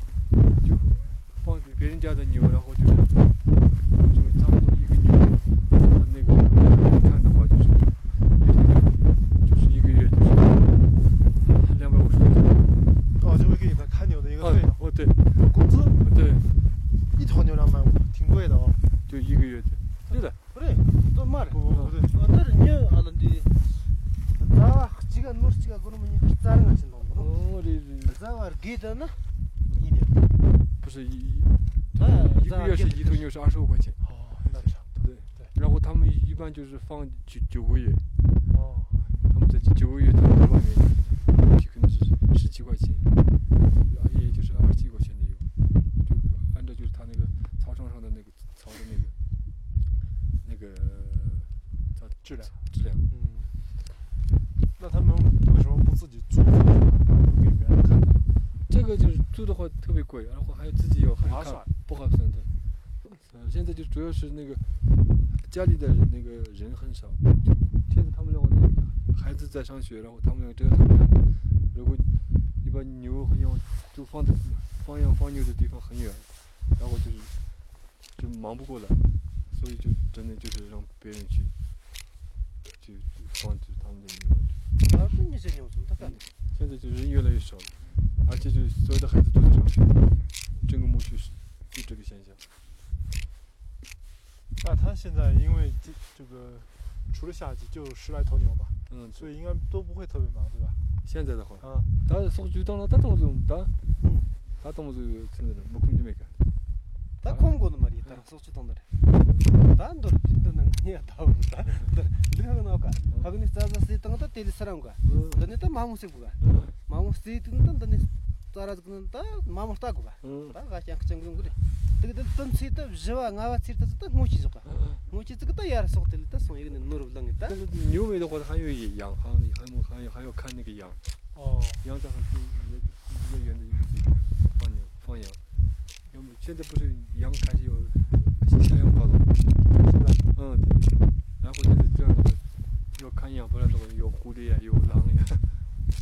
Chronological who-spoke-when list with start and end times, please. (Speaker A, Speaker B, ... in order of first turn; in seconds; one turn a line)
Speaker A: 0.6-3.3
Speaker A: 4.0-10.8
Speaker A: 11.4-12.7
Speaker B: 13.2-16.0
Speaker A: 14.4-15.2
Speaker A: 16.0-16.5
Speaker B: 17.1-18.8
Speaker A: 19.1-20.4
Speaker C: 20.5-21.6
Speaker B: 21.5-22.2
Speaker A: 21.7-22.0
Speaker C: 22.1-23.8
Speaker C: 24.3-27.3
Speaker A: 27.1-28.2
Speaker C: 28.1-29.3
Speaker B: 29.8-30.2
Speaker A: 30.8-34.0
Speaker C: 31.9-33.2
Speaker B: 34.0-35.5
Speaker A: 35.0-38.0
Speaker B: 38.5-39.0
Speaker A: 39.3-43.1
Speaker A: 43.6-45.5
Speaker A: 46.0-49.1
Speaker A: 50.4-53.0
Speaker B: 52.2-52.6
Speaker B: 53.1-53.5
Speaker B: 54.8-58.2
Speaker A: 58.7-62.5
Speaker B: 61.2-61.7
Speaker A: 63.0-64.6
Speaker A: 65.3-67.2
Speaker A: 67.9-72.1
Speaker A: 72.6-77.3
Speaker A: 78.2-81.5
Speaker A: 82.7-84.6
Speaker C: 84.9-86.2
Speaker A: 86.0-89.9
Speaker A: 90.7-92.4
Speaker B: 94.6-100.8
Speaker A: 98.9-99.3
Speaker A: 101.0-103.7
Speaker B: 101.6-101.9
Speaker C: 104.0-104.3
Speaker A: 104.6-106.4
Speaker C: 107.2-108.9
Speaker C: 109.5-127.6
Speaker A: 115.1-115.4
Speaker A: 116.4-116.7
Speaker A: 120.2-120.6
Speaker A: 127.4-131.0
Speaker B: 131.3-131.8
Speaker A: 131.8-135.4
Speaker A: 136.1-139.4
Speaker B: 139.8-140.2
Speaker A: 140.3-142.4
Speaker A: 142.9-145.5